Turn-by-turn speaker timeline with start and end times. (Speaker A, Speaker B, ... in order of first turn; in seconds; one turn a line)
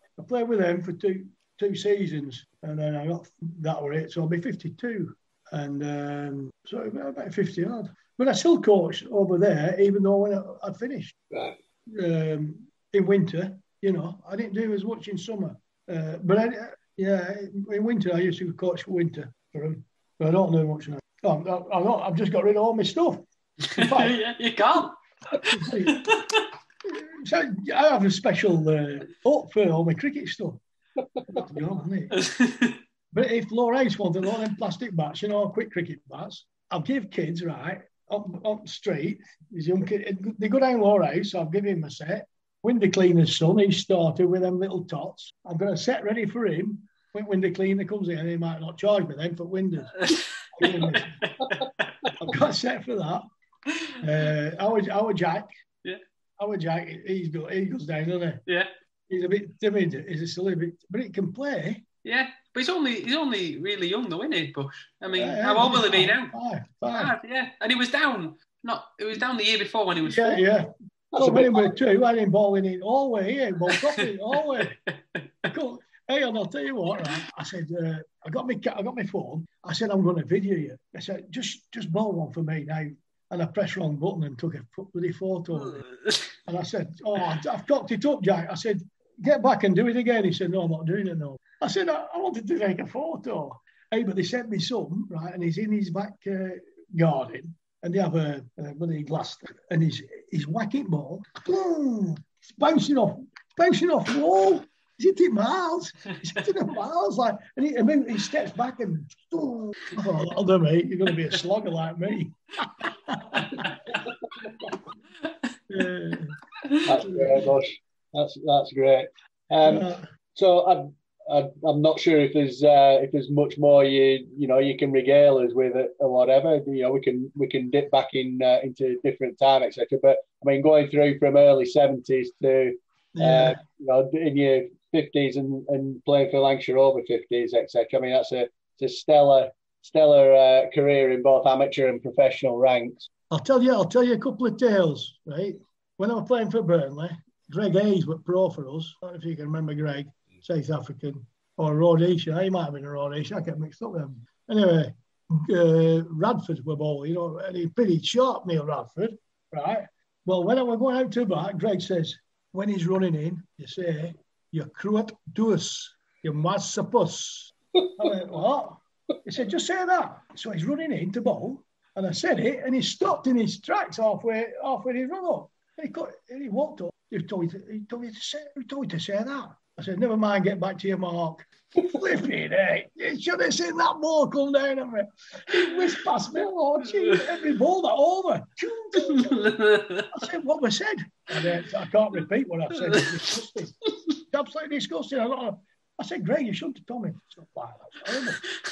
Speaker A: 0.2-11.1
Speaker A: 11.9-24.2
Speaker B: 23.7-26.4
Speaker A: 25.5-26.0
Speaker A: 26.9-30.6
Speaker A: 31.3-32.1
Speaker B: 32.1-32.8
Speaker A: 33.1-51.3
Speaker B: 50.0-51.7
Speaker A: 52.1-53.2
Speaker A: 54.0-55.5
Speaker A: 56.4-58.4
Speaker A: 59.1-61.8
Speaker B: 62.0-66.3
Speaker A: 65.1-67.2
Speaker B: 66.9-70.5
Speaker A: 70.0-74.8
Speaker C: 71.1-71.7
Speaker B: 75.1-75.5
Speaker A: 75.5-85.8
Speaker B: 85.6-86.3
Speaker A: 86.5-113.9
Speaker A: 115.7-116.3
Speaker C: 116.8-143.1
Speaker A: 117.0-117.5
Speaker A: 119.6-120.0
Speaker A: 133.1-133.6
Speaker A: 143.3-198.4
Speaker B: 189.0-190.1